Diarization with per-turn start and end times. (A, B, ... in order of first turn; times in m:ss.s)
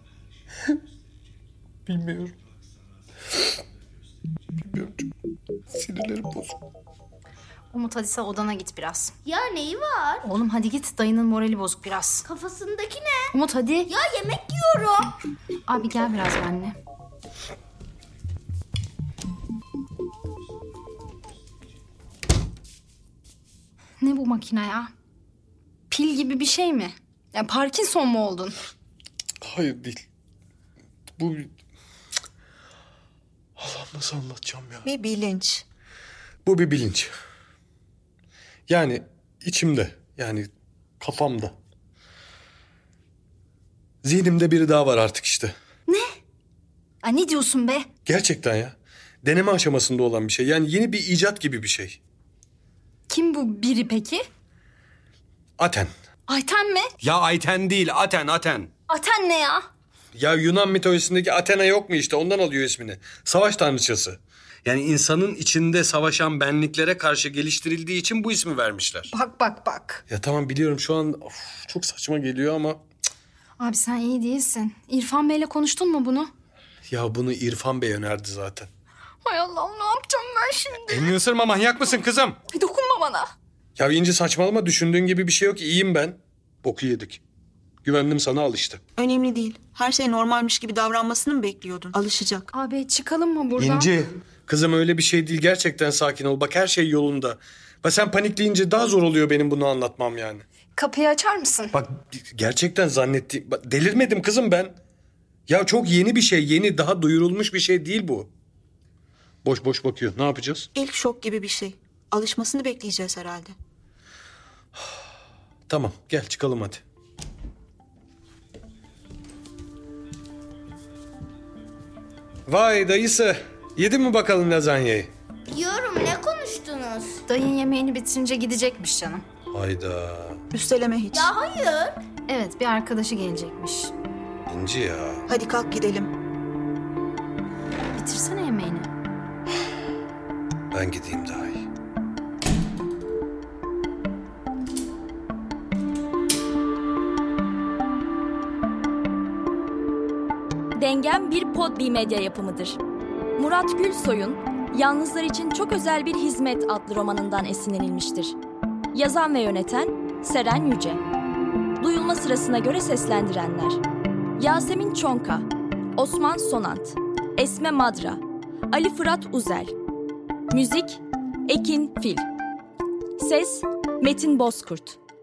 0:01.9-0:02.3 A
0:04.7-0:05.1 A
0:05.7-0:06.6 A
0:07.7-0:09.1 B
0:09.2-0:10.3 C
0:10.2-0:12.2 B
0:12.2-0:13.4 C
0:13.3-0:13.9 B
0:13.9-0:15.1 C
0:15.7-0:16.8 B
0:24.0-0:24.9 B
0:25.9-0:28.7 B
0:29.4-0:30.0 A
0:31.2-0:31.5 A
0:33.6-0:34.9 A
0:34.8-0:35.6 D
0:36.4-0:37.1 A
0:38.7-0:40.5 A
0:41.0-0:41.6 A
0:44.0-0:45.5 A
0:45.9-0:46.2 B
0:47.0-0:47.9 B
0:48.1-0:52.0 A
0:53.1-0:54.2 B
0:55.6-0:55.9 A
0:56.3-0:56.9 B
0:57.0-0:58.7 A
0:58.9-0:59.6 B
1:00.2-1:09.1 A
1:09.1-1:10.0 B
1:10.1-1:12.8 A
1:13.6-1:16.3 B
1:16.9-1:18.7 A
1:19.2-1:21.1 B
1:20.9-1:22.4 A
1:22.5-1:23.3 B
1:23.8-1:27.2 A
1:27.8-1:28.8 A
1:29.0-1:32.5 D
1:32.5-1:33.9 B
1:33.6-1:40.4 A
1:40.8-1:41.8 B
1:41.7-1:44.8 A
1:45.5-1:48.3 A
1:49.4-1:50.7 A
1:50.8-1:53.6 D
1:55.7-1:56.8 A
2:02.5-2:05.1 A
2:05.5-2:07.2 C
2:07.3-2:09.2 B
2:09.5-2:10.4 A
2:10.5-2:11.3 D
2:11.1-2:12.0 C
2:12.3-2:13.9 B
2:14.5-2:15.3 A
2:15.3-2:16.1 D
2:17.9-2:18.9 B
2:20.7-2:21.7 A
2:30.8-2:32.8 E
2:33.4-2:38.4 E
2:38.9-2:41.0 E
2:41.8-2:43.8 E
2:44.4-2:49.7 E
2:50.5-2:52.3 E
2:53.2-2:55.0 E